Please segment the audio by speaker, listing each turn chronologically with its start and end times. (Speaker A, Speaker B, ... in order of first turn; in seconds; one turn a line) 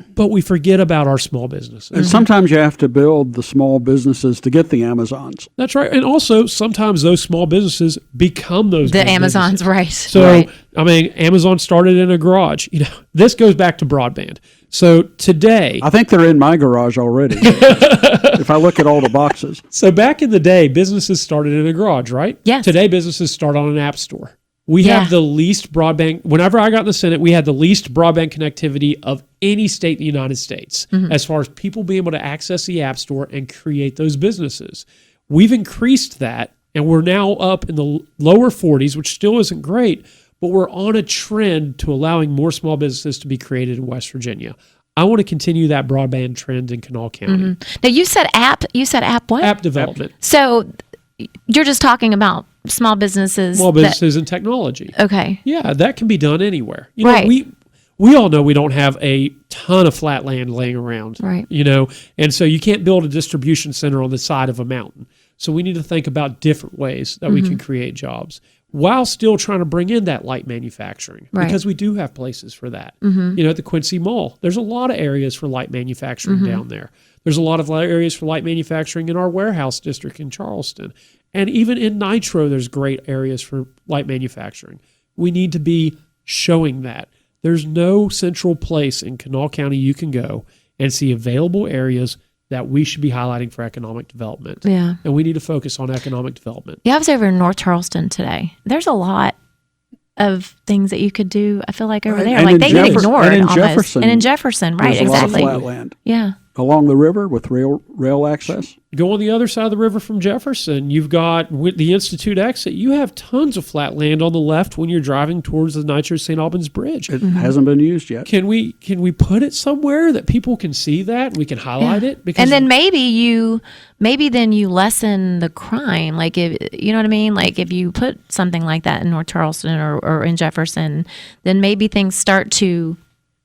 Speaker A: 0.1-2.2
Speaker B: 1.9-5.5
Speaker C: 2.0-2.2
Speaker A: 5.6-15.8
Speaker C: 8.8-10.5
Speaker B: 10.1-10.4
Speaker B: 15.8-19.6
Speaker A: 17.4-18.5
Speaker A: 19.7-47.5
Speaker C: 24.8-25.1
Speaker C: 47.3-49.6
Speaker A: 49.4-50.1
Speaker C: 50.2-50.7
Speaker C: 51.2-54.0
Speaker A: 53.5-54.9
Speaker C: 54.9-55.4
Speaker A: 55.4-96.8
Speaker C: 57.0-57.3
Speaker C: 61.2-61.5
Speaker C: 67.3-67.6
Speaker C: 73.0-73.4
Speaker C: 76.2-76.6
Speaker C: 94.6-95.0
Speaker C: 96.8-99.3
Speaker C: 100.2-106.3
Speaker B: 102.1-104.3
Speaker A: 102.5-103.1
Speaker B: 104.8-105.9
Speaker A: 105.0-105.7
Speaker B: 106.5-108.7
Speaker A: 108.9-117.1
Speaker B: 117.1-118.3
Speaker C: 117.2-117.5
Speaker A: 118.3-122.7
Speaker C: 121.8-133.0